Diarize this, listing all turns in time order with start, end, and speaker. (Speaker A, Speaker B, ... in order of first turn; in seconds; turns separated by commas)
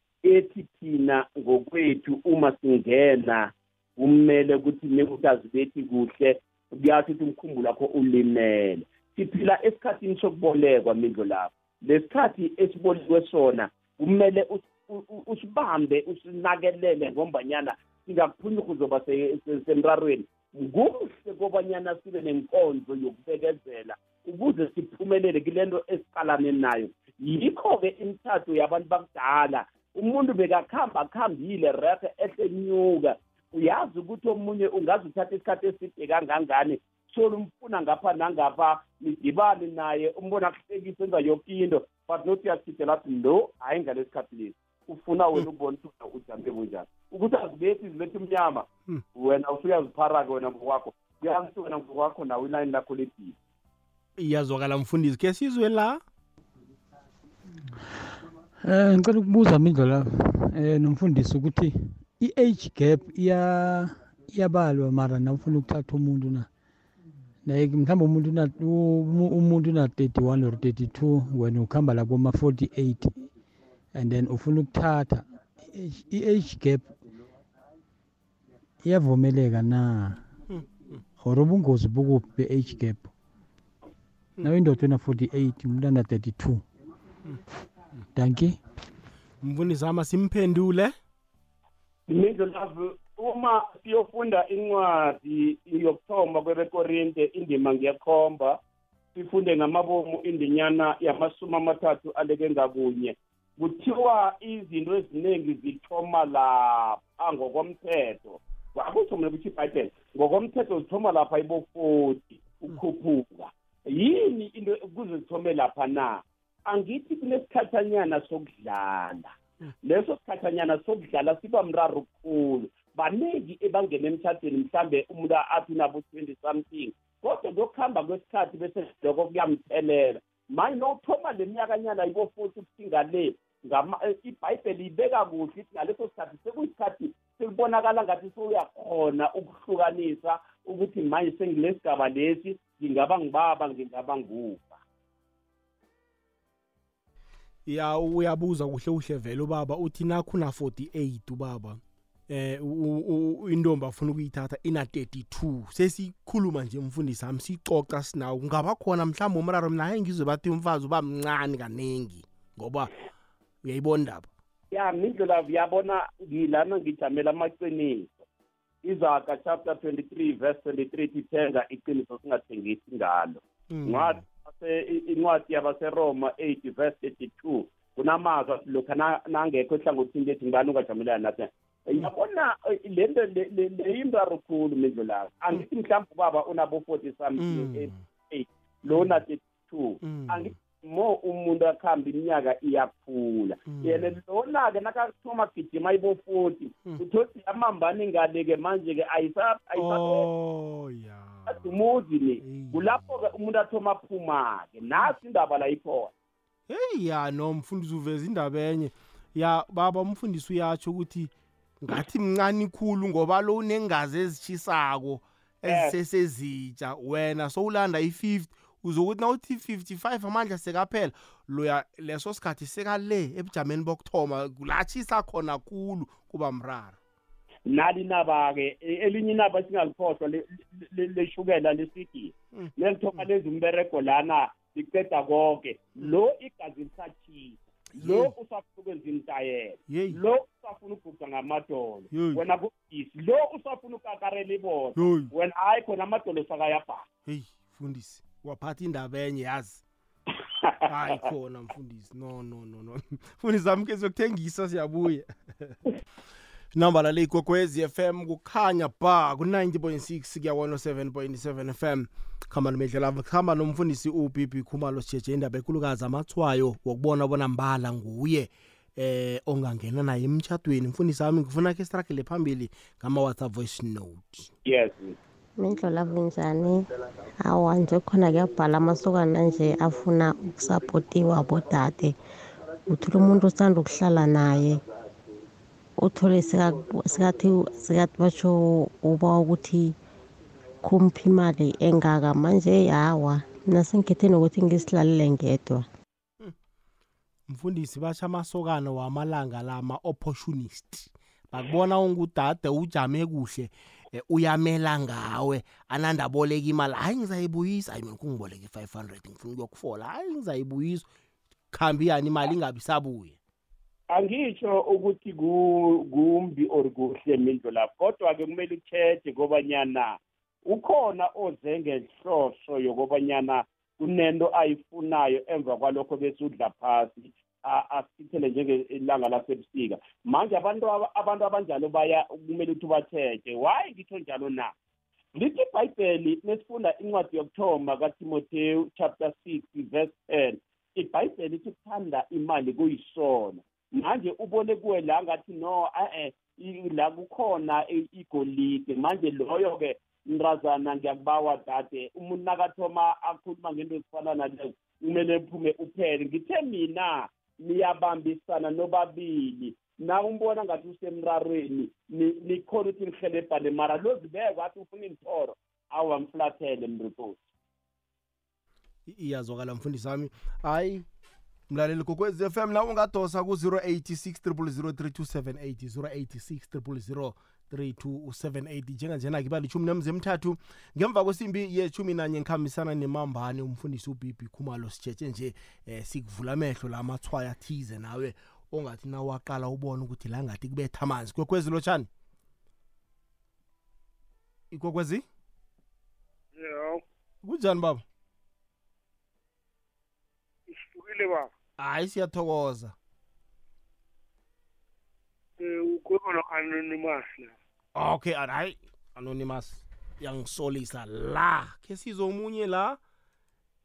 Speaker A: 0.2-53.4, Speaker B: 54.2-56.0, Speaker C: 58.6-66.5, Speaker C: 67.5-73.3, Speaker C: 74.0-76.9, Speaker C: 78.8-80.2, Speaker C: 81.2-83.1, Speaker C: 84.4-86.6, Speaker C: 88.2-88.6, Speaker B: 89.4-90.9, Speaker A: 92.1-98.6, Speaker A: 99.2-144.8, Speaker B: 147.7-162.9, Speaker B: 163.6-164.3, Speaker A: 164.7-168.2, Speaker A: 168.8-200.3, Speaker B: 173.7-174.2, Speaker B: 187.4-188.0, Speaker B: 188.9-189.2, Speaker B: 190.0-190.5, Speaker B: 193.7-194.1, Speaker B: 199.8-201.7, Speaker A: 201.5-206.1, Speaker B: 202.4-202.8, Speaker B: 206.7-227.0, Speaker A: 215.7-215.9, Speaker A: 227.7-247.0, Speaker B: 232.5-233.2, Speaker B: 238.0-238.3, Speaker B: 239.9-240.2, Speaker B: 242.1-242.4, Speaker B: 245.0-245.3, Speaker B: 247.3-249.8, Speaker B: 250.9-255.8, Speaker B: 256.8-274.5, Speaker A: 274.6-275.2, Speaker D: 275.6-276.8, Speaker D: 277.4-282.1, Speaker D: 282.9-284.8, Speaker D: 286.0-289.9, Speaker D: 290.8-295.9, Speaker B: 297.5-311.1, Speaker B: 311.7-313.4, Speaker A: 314.1-334.7, Speaker A: 335.4-367.4, Speaker B: 369.1-371.1, Speaker B: 371.7-392.1, Speaker B: 394.7-395.2, Speaker E: 396.6-397.0, Speaker B: 397.4-398.0, Speaker E: 400.7-401.5, Speaker B: 401.8-402.9, Speaker E: 405.6-407.6, Speaker B: 407.9-413.0